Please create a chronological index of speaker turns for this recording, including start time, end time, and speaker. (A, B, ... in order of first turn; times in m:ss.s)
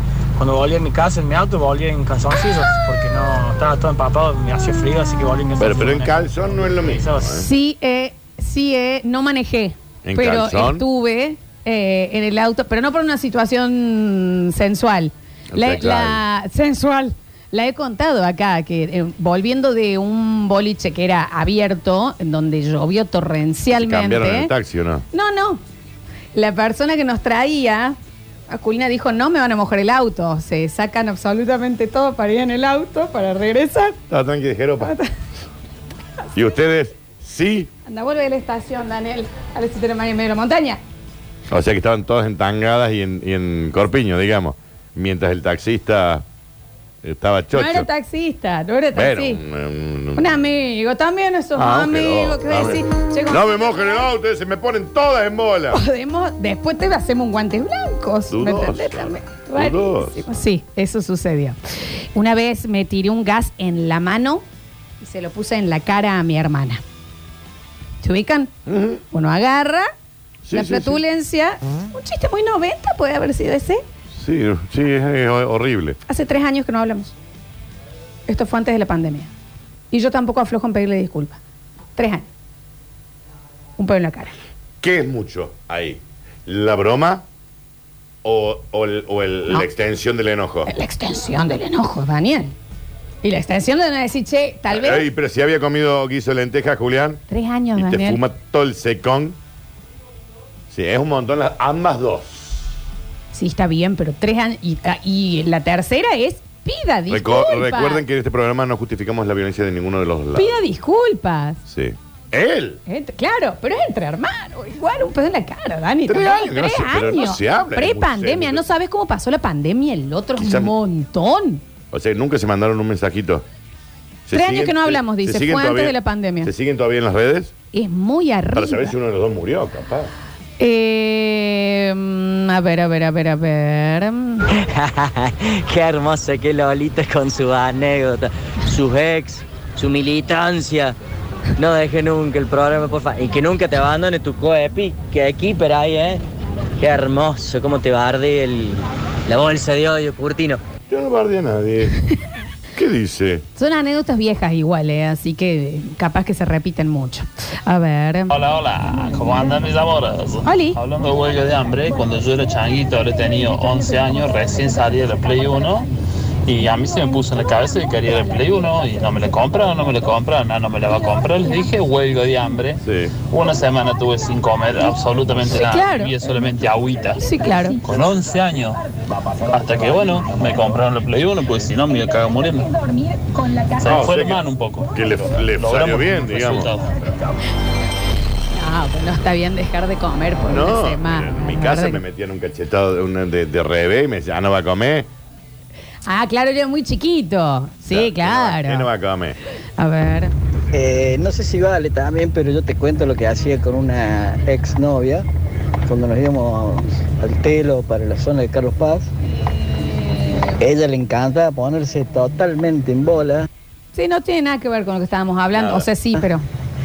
0:00.4-0:07.4 A
0:05.6-0:07.5 B
0:07.3-0:24.5 C
0:10.0-0:10.8 B
0:15.5-0:16.2 B
0:23.7-0:25.0 B
0:25.1-0:25.6 C
0:26.3-0:28.0 C
0:28.5-0:34.0 C
0:34.1-0:34.9 B
0:34.8-0:35.1 C
0:36.3-0:37.7 B
0:37.8-0:40.8 C
0:41.5-0:46.2 B
0:47.0-0:47.9 B
0:47.5-0:49.4 C
0:48.9-0:50.3 B
0:50.2-0:54.1 C
0:51.6-0:55.8 B
0:55.7-1:01.6 C
0:58.3-1:00.2 B
1:02.1-1:04.4 C
1:05.0-1:06.8 C
1:08.0-1:08.5 C
1:08.7-1:09.0 B
1:09.1-1:09.9 C
1:10.4-1:11.0 B
1:10.5-1:13.8 C
1:14.2-1:16.0 B
1:16.1-1:17.1 C
1:18.3-1:19.3 C
1:19.9-1:21.4 C
1:22.0-1:22.3 C
1:23.8-1:24.3 C
1:24.8-1:27.2 B
1:28.2-1:30.7 B
1:30.7-1:32.5 C
1:33.2-1:35.0 C
1:34.7-1:37.2 B
1:37.3-1:38.2 C
1:37.8-1:39.4 B
1:40.7-1:42.7 B
1:43.3-1:48.0 C
1:47.1-1:50.6 B
1:50.3-1:51.6 C
1:51.7-1:52.8 B
1:52.9-2:01.6 C
1:56.1-1:58.6 B
2:00.4-2:00.7 B
2:01.9-2:03.4 B
2:04.3-2:07.5 B
2:04.3-2:06.5 C
2:07.7-2:08.9 C
2:08.5-2:10.1 B
2:10.6-2:14.4 C
2:14.5-2:21.0 D
2:21.6-2:26.2 D
2:26.8-2:30.6 D
2:30.9-2:31.9 B
2:32.7-2:33.4 B
2:33.6-2:38.3 C
2:38.3-2:45.9 E
2:40.4-2:40.8 C
2:46.4-2:57.2 E
2:52.8-2:53.1 B
2:55.5-2:56.1 C
2:57.2-2:57.8 C
2:57.8-2:58.8 E
2:59.5-3:02.8 E
3:03.8-3:04.9 E
3:03.8-3:06.7 B
3:05.6-3:07.0 E
3:08.5-3:12.0 C
3:10.5-3:15.1 B
3:16.0-3:18.9 C
3:17.9-3:19.4 B
3:19.8-3:20.3 C
3:20.7-3:25.2 F
3:25.8-3:29.1 F
3:30.6-3:33.5 F
3:33.9-3:36.4 C
3:35.5-3:35.9 B